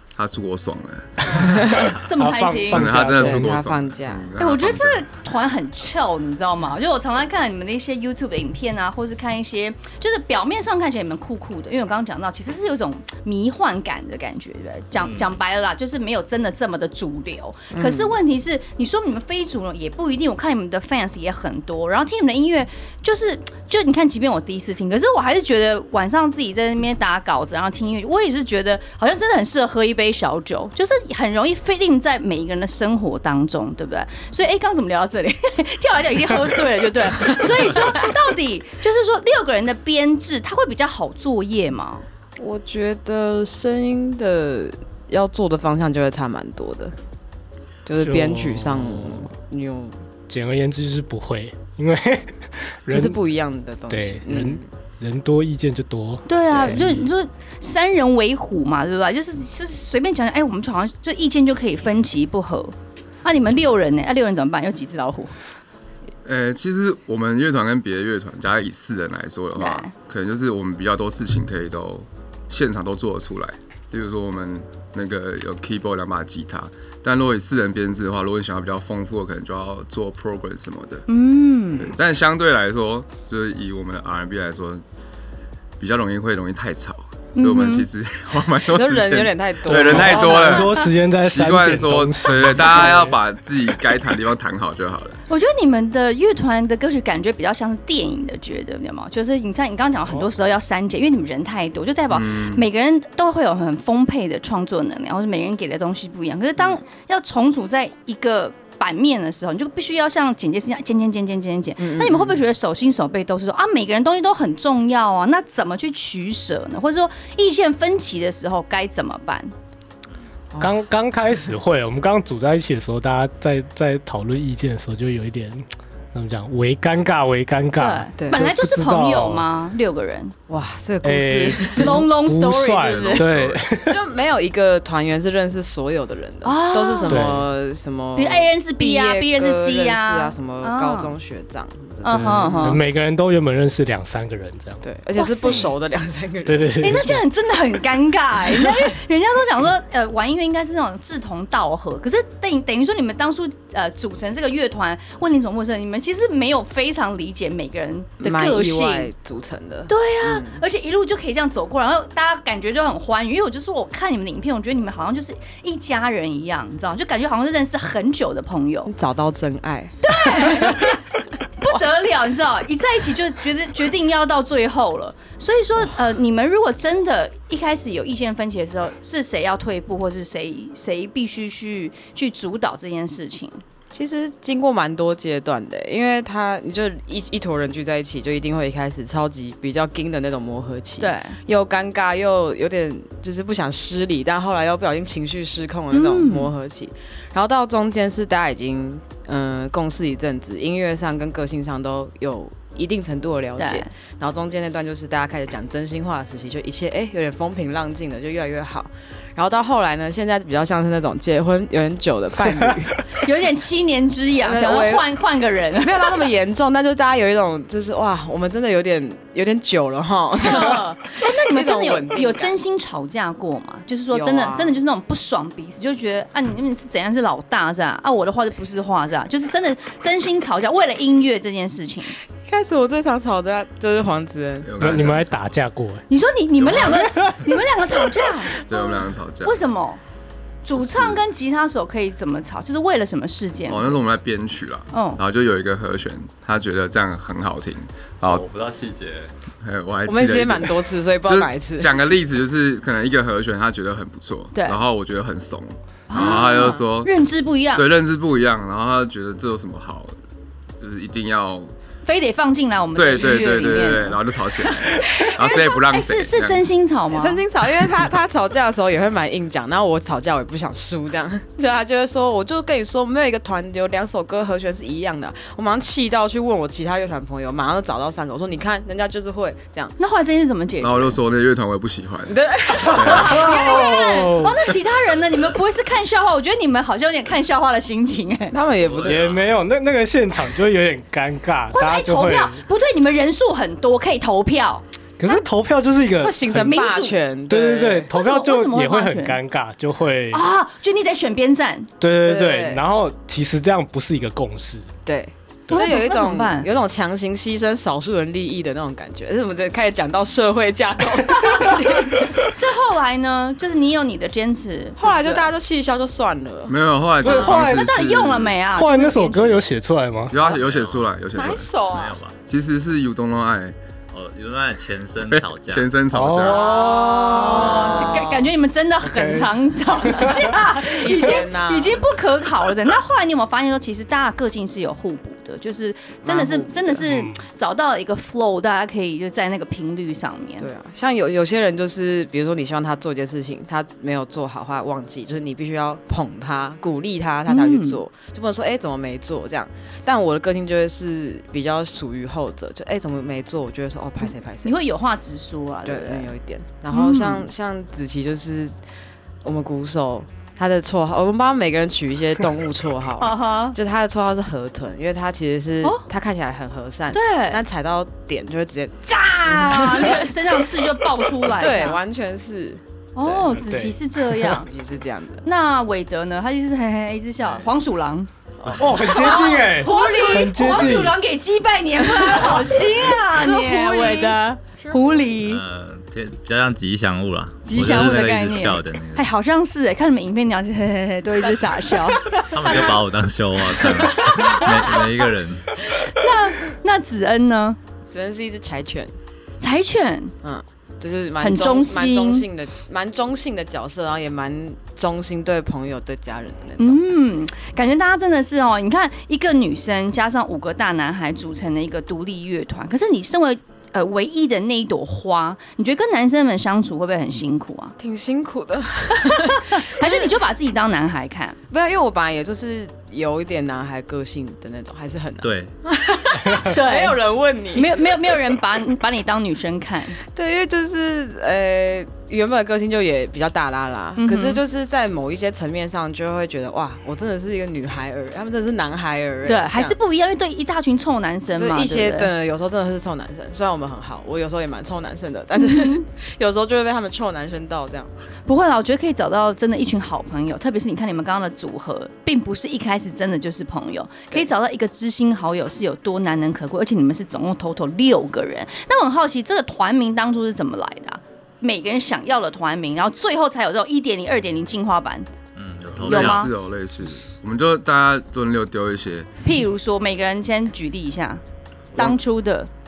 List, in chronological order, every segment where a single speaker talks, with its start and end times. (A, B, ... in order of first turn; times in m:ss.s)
0:00.2-0:01.7 A
0:01.3-0:03.6 B
0:01.4-0:02.0 C
0:01.9-0:02.9 D
0:02.7-0:05.0 A
0:03.0-0:04.3 C
0:04.4-0:42.0 D
0:17.7-0:18.2 C
0:37.3-0:38.0 C
0:42.4-0:46.9 C
0:47.8-0:50.0 C
0:48.0-0:49.2 B
0:50.3-0:53.2 B
0:52.9-0:54.7 C
0:53.9-0:57.1 B
0:56.3-1:05.3 D
1:06.2-1:21.1 A
1:09.6-1:09.9 D
1:21.1-1:21.9 D
1:21.8-1:24.8 A
1:25.8-1:35.2 A
1:27.4-1:27.9 D
1:28.7-1:30.7 C
1:29.7-1:33.2 B
1:30.5-1:30.8 D
1:35.3-1:59.5 D
1:42.1-1:42.6 A
1:51.8-1:52.4 C
2:00.5-2:00.8 C
2:00.6-2:09.5 B
2:07.8-2:10.4 D
2:08.2-2:08.4 C
2:10.5-2:12.0 C
2:11.0-2:14.0 B
2:11.7-2:13.3 D
2:12.8-2:13.7 A
2:13.9-2:22.8 C
2:16.4-2:17.2 D
2:17.1-2:17.5 B
2:18.2-2:21.1 D
2:22.0-2:22.8 D
2:22.1-2:24.8 B
2:24.8-2:26.8 C
2:25.2-2:25.7 D
2:26.4-2:27.2 B
2:26.8-2:39.1 D
2:38.2-2:40.6 C
2:39.9-2:48.9 D
2:48.9-2:51.0 C
2:50.0-2:51.0 D
2:51.6-3:03.6 D
3:03.9-3:33.0 C
3:11.0-3:11.4 D
3:15.9-3:16.5 D
3:23.6-3:23.9 D
3:33.2-3:36.2 D
3:34.4-3:35.1 C
3:35.8-3:42.6 C
3:40.4-3:52.2 D
3:44.1-3:44.8 C
3:52.4-3:54.7 C
3:54.6-3:55.5 A
3:54.8-3:56.0 B
3:56.1-4:00.0 D
3:56.8-3:57.4 B
3:58.6-3:59.6 A
4:00.6-4:04.0 D
4:00.8-4:01.2 A
4:03.7-4:08.4 A
4:04.9-4:05.2 D
4:08.2-4:09.3 E
4:09.6-4:17.1 A
4:10.1-4:12.0 C
4:14.5-4:14.8 D
4:16.1-4:17.8 D
4:16.5-4:16.8 C
4:17.7-4:20.1 A
4:20.8-4:21.7 A
4:22.0-4:24.2 D
4:23.0-4:26.6 A
4:24.8-4:27.4 D
4:27.1-4:40.0 C
4:40.0-4:41.2 D
4:40.8-4:43.5 A
4:42.3-4:43.4 C
4:42.8-4:44.7 B
4:42.9-4:48.6 D
4:48.5-4:49.3 C
4:48.8-4:49.5 E
4:49.0-4:52.6 B
4:51.7-4:55.4 D
4:55.2-4:56.8 B
4:56.2-4:58.1 C
4:56.6-4:57.2 D
4:57.5-5:00.4 B
4:58.1-4:59.4 D
5:00.3-5:01.9 D
5:02.0-5:04.9 B
5:02.2-5:02.8 C
5:05.1-5:12.4 C
5:05.7-5:06.0 B
5:05.7-5:06.7 D
5:11.3-5:15.5 D
5:15.0-5:16.8 C
5:16.7-5:18.6 A
5:17.2-5:17.9 B
5:17.2-5:19.6 D
5:18.7-5:20.4 B
5:20.3-5:21.7 A
5:20.4-5:22.4 E
5:21.4-5:22.2 C
5:22.4-5:23.8 A
5:24.1-5:25.9 E
5:25.2-5:26.8 A
5:26.1-5:27.2 B
5:26.4-5:28.5 C
5:26.5-5:40.7 D
5:29.0-5:30.6 B
5:30.4-5:32.0 C
5:36.2-5:37.1 C
5:37.1-5:37.4 B
5:40.6-5:54.8 C
5:47.5-5:48.0 D
5:54.6-5:56.3 D
5:55.8-5:58.8 C
5:56.9-5:57.4 D
5:59.4-6:10.3 C
6:03.2-6:03.8 D
6:07.1-6:07.6 D
6:09.1-6:12.0 D
6:11.4-6:12.8 C
6:13.2-6:14.7 D
6:13.3-6:14.6 B
6:14.6-6:15.4 C
6:15.4-6:18.3 D
6:18.6-6:21.0 C
6:18.6-6:19.0 E
6:18.8-6:21.2 B
6:19.0-6:25.6 D
6:22.1-6:25.3 C
6:25.4-6:29.3 E
6:27.6-6:33.0 D
6:32.5-6:35.7 E
6:34.0-6:35.1 D
6:35.9-6:37.8 D
6:38.1-6:39.1 C
6:39.6-6:40.3 D
6:40.4-6:47.0 C
6:41.4-6:42.5 D
6:46.8-6:58.0 D
6:58.0-7:00.4 C
6:59.2-7:01.6 D
7:01.7-7:08.6 C
7:05.4-7:05.7 E
7:06.6-7:10.2 D
7:10.3-7:20.0 C
7:14.2-7:14.6 D
7:19.4-7:22.3 D
7:21.5-7:28.1 C
7:25.6-7:26.0 D
7:28.5-7:45.3 D
7:45.6-7:46.5 E
7:45.9-7:49.3 A
7:46.0-7:46.5 D
7:49.4-7:51.4 D
7:52.0-7:52.7 D